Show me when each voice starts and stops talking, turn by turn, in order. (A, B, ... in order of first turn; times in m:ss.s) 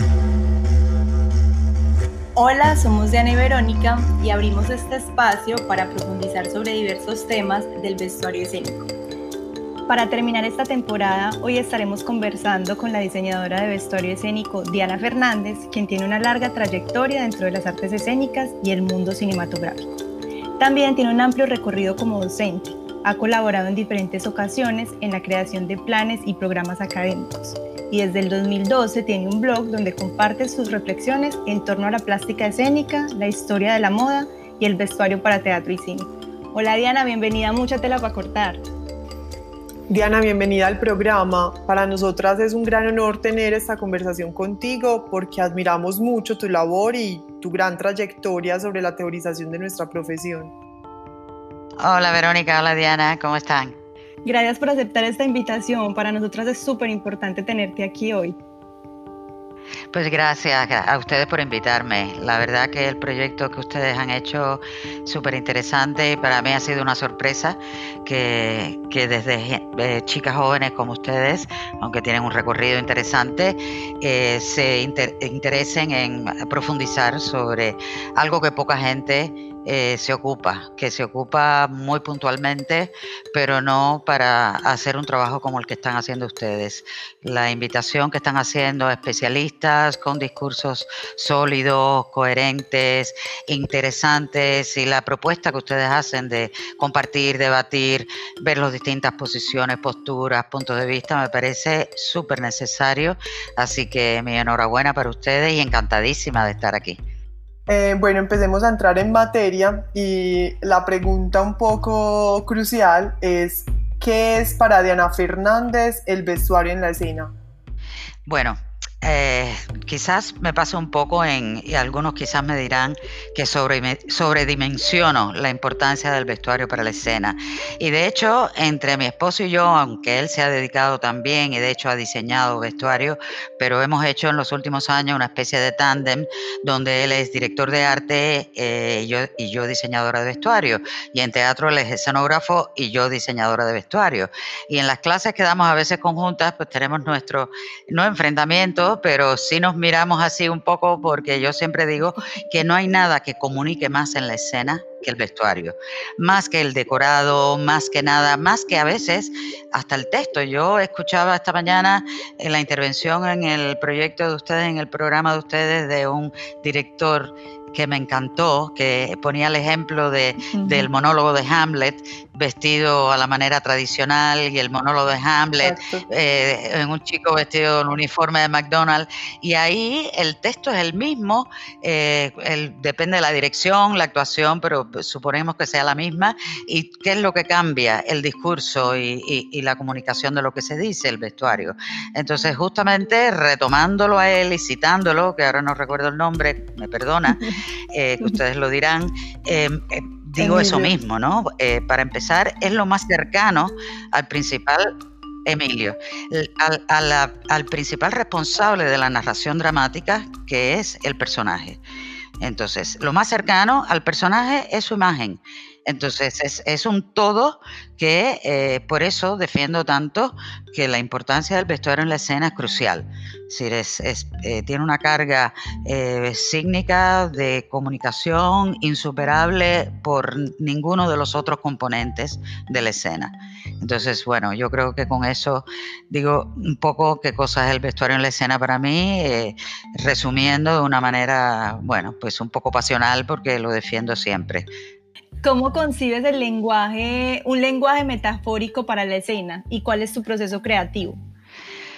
0:02.4-0:08.9 A
0:09.9-0:20.0 A
0:20.6-0:38.6 A
0:39.9-0:50.5 B
0:51.8-0:53.8 C
0:54.3-0:58.4 A
0:59.9-1:47.0 C
1:47.7-1:57.3 B
1:58.3-3:24.9 C
2:50.5-2:50.9 B
2:55.6-2:56.1 B
3:20.4-3:20.9 B
3:25.4-3:31.8 C
3:32.4-4:04.7 C
4:05.4-4:11.2 A